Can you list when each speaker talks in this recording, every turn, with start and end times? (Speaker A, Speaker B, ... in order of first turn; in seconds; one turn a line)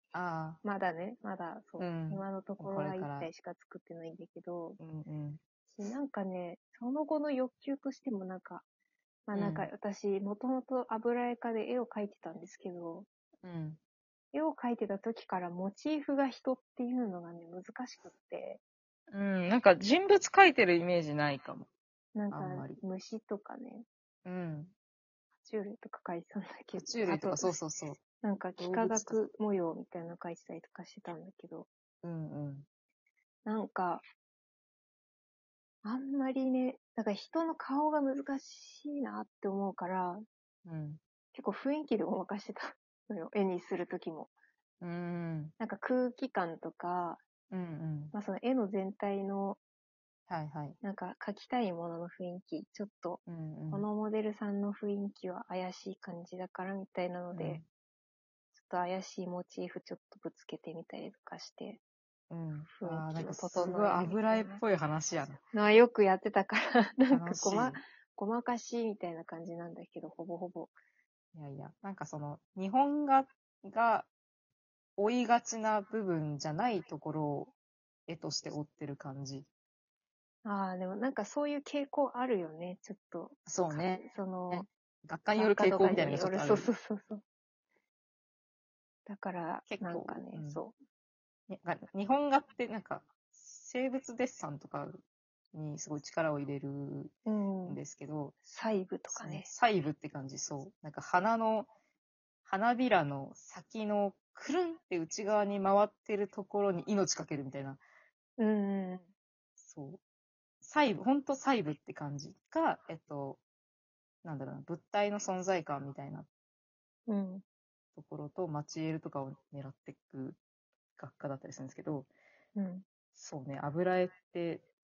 Speaker A: 0.1-0.6
Speaker B: 0.6-4.8
Speaker A: 1.8-3.3
Speaker A: 4.8-5.4
Speaker B: 5.7-8.6
Speaker B: 9.3-13.1
Speaker A: 9.3-9.7
Speaker A: 13.4-13.8
Speaker B: 14.3-18.6
Speaker A: 19.1-21.7
Speaker B: 22.1-23.9
Speaker A: 22.3-22.8
Speaker A: 24.2-24.7
Speaker B: 25.4-27.6
Speaker A: 26.7-28.0
Speaker B: 28.2-31.7
Speaker A: 28.6-29.2
Speaker A: 32.0-32.6
Speaker B: 33.5-34.0
Speaker B: 35.8-40.2
Speaker A: 40.6-41.0
Speaker B: 41.3-44.3
Speaker A: 44.8-45.5
Speaker B: 45.6-47.2
Speaker A: 47.5-48.1
Speaker B: 48.1-49.6
Speaker A: 50.3-50.8
Speaker B: 50.8-57.6
Speaker A: 53.3-53.9
Speaker A: 57.3-57.6
Speaker B: 58.6-61.8
Speaker A: 62.3-65.4
Speaker B: 62.7-64.6
Speaker B: 65.5-70.7
Speaker A: 67.1-67.8
Speaker A: 71.3-74.1
Speaker A: 75.0-77.5
Speaker A: 78.1-79.5
Speaker B: 80.4-84.7
Speaker A: 83.5-86.7
Speaker B: 85.3-87.2
Speaker B: 89.0-90.7
Speaker A: 89.7-90.6
Speaker A: 91.5-95.0
Speaker A: 95.5-97.1
Speaker B: 97.2-97.8
Speaker A: 97.7-98.3
Speaker B: 98.5-99.5
Speaker A: 99.1-101.7
Speaker A: 102.4-107.8
Speaker B: 108.4-109.1
Speaker A: 109.6-110.0
Speaker A: 110.6-113.4
Speaker A: 114.2-116.3
Speaker B: 117.1-117.4
Speaker A: 117.9-120.4
Speaker A: 121.0-122.1
Speaker B: 122.5-122.8
Speaker A: 123.1-124.6